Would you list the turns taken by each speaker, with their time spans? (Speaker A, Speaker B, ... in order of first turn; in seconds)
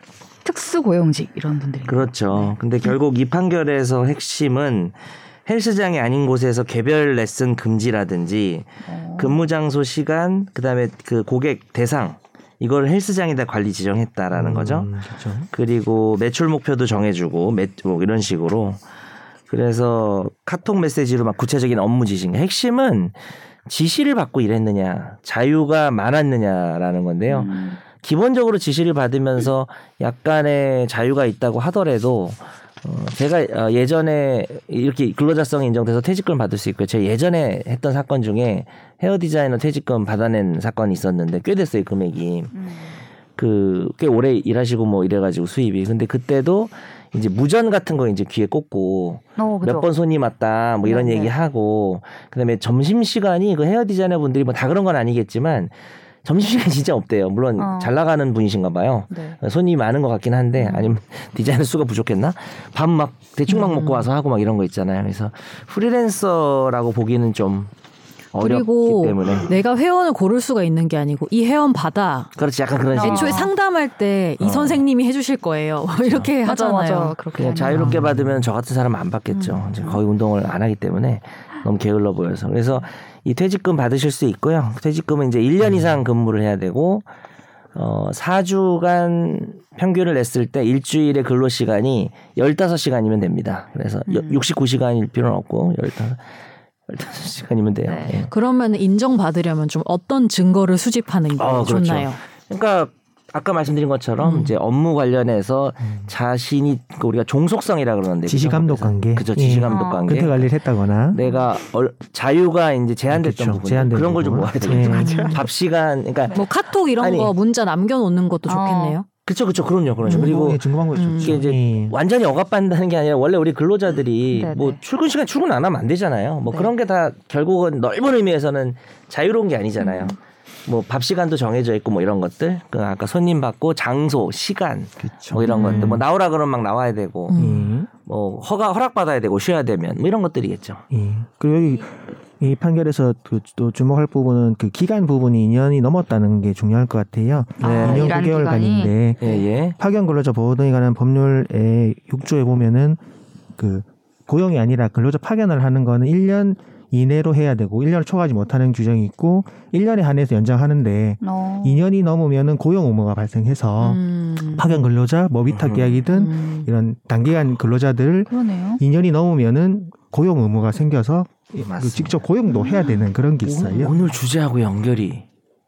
Speaker A: 0.4-2.6, 8.8-9.4, 27.3-27.8, 42.5-43.0, 49.4-49.9, 50.8-51.4, 57.6-57.9, 59.1-59.4, 60.6-60.9, 72.9-73.5, 76.4-78.1, 79.3-80.0, 94.1-94.5, 97.9-98.2, 109.7-110.2, 118.5-119.0, 124.3-124.8, 129.8-130.2, 147.6-149.4, 161.2-161.8, 168.3-168.8, 172.5-173.0
Speaker B: 1.9-14.9, 15.5-18.8, 19.5-23.1, 23.7-42.5, 43.4-55.7, 56.2-67.7, 68.3-69.5, 72.4-73.5, 74.4-74.8, 77.3-87.0, 87.8-96.2, 96.9-98.3, 101.4-110.5, 111.1-116.4, 117.0-117.3, 119.2-137.4, 138.0-140.8, 147.6-148.2, 149.2-149.8, 165.5-166.0, 171.6-172.2, 173.4-175.2
Speaker C: 14.3-15.5, 108.3-111.2, 113.1-115.3, 120.0-122.0, 135.0-136.0, 137.3-137.9, 140.9-153.0, 153.6-174.0
Speaker D: 63.5-64.1, 68.4-72.3, 73.0-77.2, 77.7-78.0, 98.2-102.2, 104.2-104.5, 114.9-115.4, 116.3-119.1, 120.0-120.4, 121.0-121.4, 135.5-136.0, 137.3-137.8, 163.8-164.7, 166.1-166.7